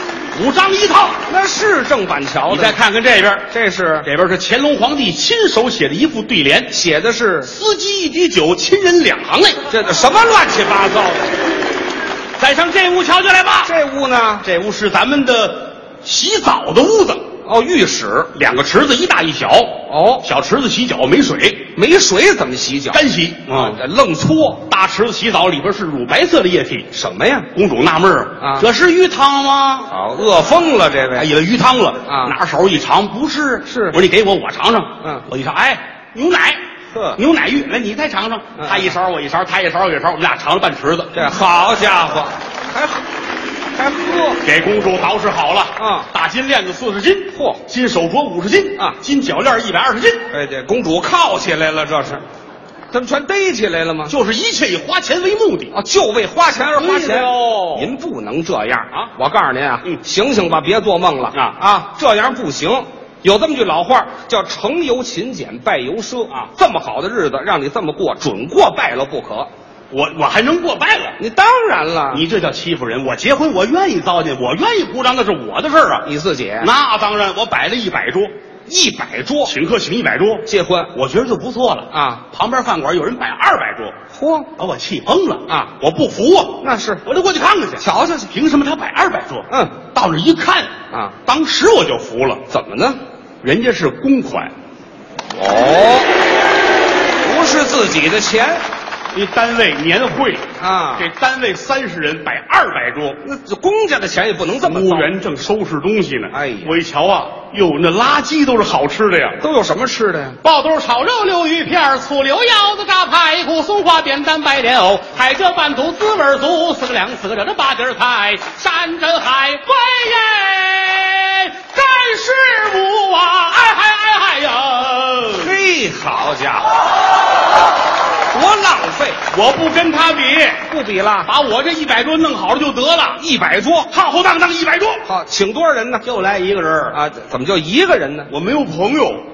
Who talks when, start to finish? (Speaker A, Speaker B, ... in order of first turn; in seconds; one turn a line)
Speaker A: 0.3-1.2
Speaker B: 1.2-2.8
Speaker A: 2.5-3.5
Speaker B: 3.5-4.1
Speaker A: 4.0-6.8
Speaker B: 6.7-7.5
Speaker A: 7.4-9.6
Speaker B: 9.7-11.4
Speaker A: 12.4-13.7
Speaker B: 13.6-14.4
Speaker A: 14.4-17.2
Speaker B: 17.4-18.3
Speaker A: 18.3-21.7
Speaker B: 19.9-20.3
Speaker B: 21.7-24.6
Speaker A: 22.9-23.8
Speaker A: 24.6-26.9
Speaker B: 26.9-27.5
Speaker A: 27.5-29.9
Speaker B: 28.4-28.7
Speaker B: 29.9-31.3
Speaker A: 31.1-36.6
Speaker B: 32.1-32.3
Speaker B: 33.7-34.0
Speaker B: 36.9-37.2
Speaker A: 37.1-41.2
Speaker B: 38.6-39.0
Speaker B: 41.1-43.0
Speaker B: 43.7-44.4
Speaker A: 44.4-50.3
Speaker B: 45.8-46.1
Speaker B: 47.3-47.6
Speaker B: 50.3-52.2
Speaker B: 52.9-54.1
Speaker A: 54.1-55.7
Speaker B: 55.7-69.5
Speaker A: 56.7-57.9
Speaker A: 69.9-71.2
Speaker B: 71.2-72.3
Speaker A: 72.1-76.1
Speaker B: 76.0-76.7
Speaker A: 76.6-78.3
Speaker B: 78.7-79.5
Speaker A: 79.5-83.9
Speaker B: 80.5-80.9
Speaker B: 81.9-82.2
Speaker B: 84.1-84.5
Speaker A: 84.6-90.7
Speaker B: 86.6-87.0
Speaker B: 87.8-88.3
Speaker B: 89.5-89.7
Speaker A: 91.2-92.4
Speaker B: 92.5-93.0
Speaker A: 93.4-94.5
Speaker B: 95.3-96.1
Speaker B: 97.2-98.6
Speaker A: 99.1-103.2
Speaker B: 100.6-101.1
Speaker B: 103.2-105.1
Speaker A: 104.6-109.4
Speaker B: 106.3-106.8
Speaker B: 109.4-110.4
Speaker A: 110.4-125.5
Speaker B: 125.3-126.7
Speaker B: 128.3-129.2
Speaker A: 129.3-130.6
Speaker B: 130.7-131.3
Speaker A: 131.2-133.2
Speaker B: 133.2-133.9
Speaker A: 133.9-135.0
Speaker B: 135.0-136.0
Speaker A: 136.0-137.0
Speaker B: 136.9-138.3
Speaker A: 138.3-139.2